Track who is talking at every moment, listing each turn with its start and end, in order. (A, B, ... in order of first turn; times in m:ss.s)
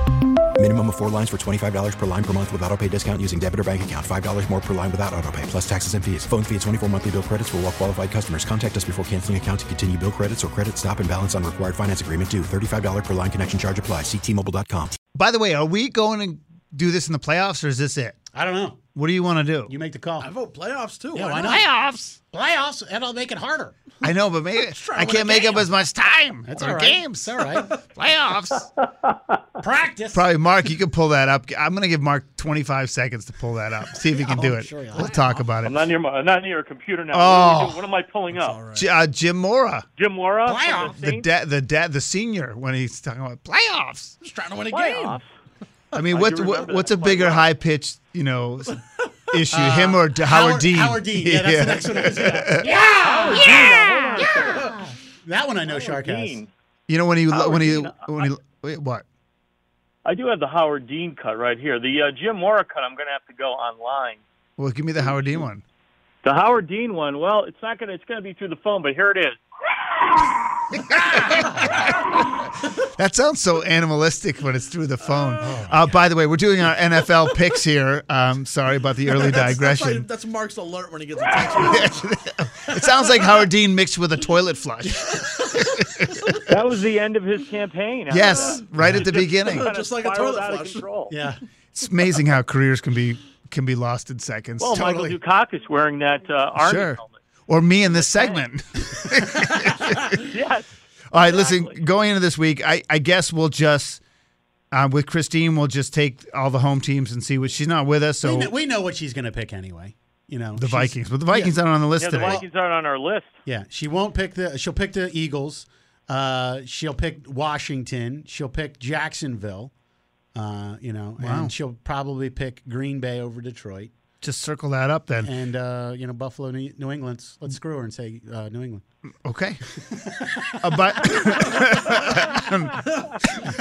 0:00.6-0:15.0 A
0:15.1-0:18.2 B
0:18.3-0:18.8 C
0:18.9-0:19.7 B
0:19.7-0:20.3 C
0:20.2-0:21.6 D
0:21.1-0:21.7 C
0:21.4-0:22.2 B
0:22.3-0:23.7 C
0:24.0-0:28.6 B
0:24.6-0:25.7 D
0:26.5-0:27.7 C
0:29.6-0:30.2 C
0:30.1-0:35.8 B
0:34.1-0:35.5 C
0:35.6-0:38.6 E
0:37.1-0:37.8 B
0:38.3-0:38.9 D
0:38.8-0:39.8 B
0:40.0-0:41.3 E
0:40.4-0:41.0 C
0:40.9-0:44.2 B
0:44.2-0:45.2 D
0:44.7-0:45.2 E
0:45.9-0:54.5 B
0:46.1-0:47.4 E
0:49.5-0:56.4 C
0:52.2-0:54.7 E
0:55.6-0:56.5 E
0:56.9-0:59.0 B
0:57.3-0:58.3 E
1:00.0-1:04.2 E
1:04.6-1:05.6 B
1:06.2-1:10.4 E
1:10.9-1:11.9 B
1:12.9-1:20.1 B
1:15.4-1:15.8 C
1:19.1-1:22.0 D
1:21.3-1:26.1 B
1:22.7-1:23.5 D
1:25.1-1:26.4 D
1:26.5-1:31.1 E
1:28.1-1:29.7 B
1:28.2-1:30.8 D
1:31.1-1:31.4 C
1:31.7-1:35.1 B
1:34.6-1:37.2 E
1:36.6-1:40.1 B
1:37.9-1:38.4 E
1:40.1-1:41.8 E
1:41.1-1:44.0 B
1:44.7-1:48.5 B
1:48.2-1:51.5 C
1:50.6-1:52.4 B
1:52.0-1:53.3 E
1:53.4-1:59.7 C
2:00.3-2:03.9 C
2:01.2-2:01.5 B
2:04.2-2:05.3 B
2:05.2-2:08.8 C
2:09.2-2:09.6 B
2:10.0-2:11.4 C
2:10.6-2:12.8 B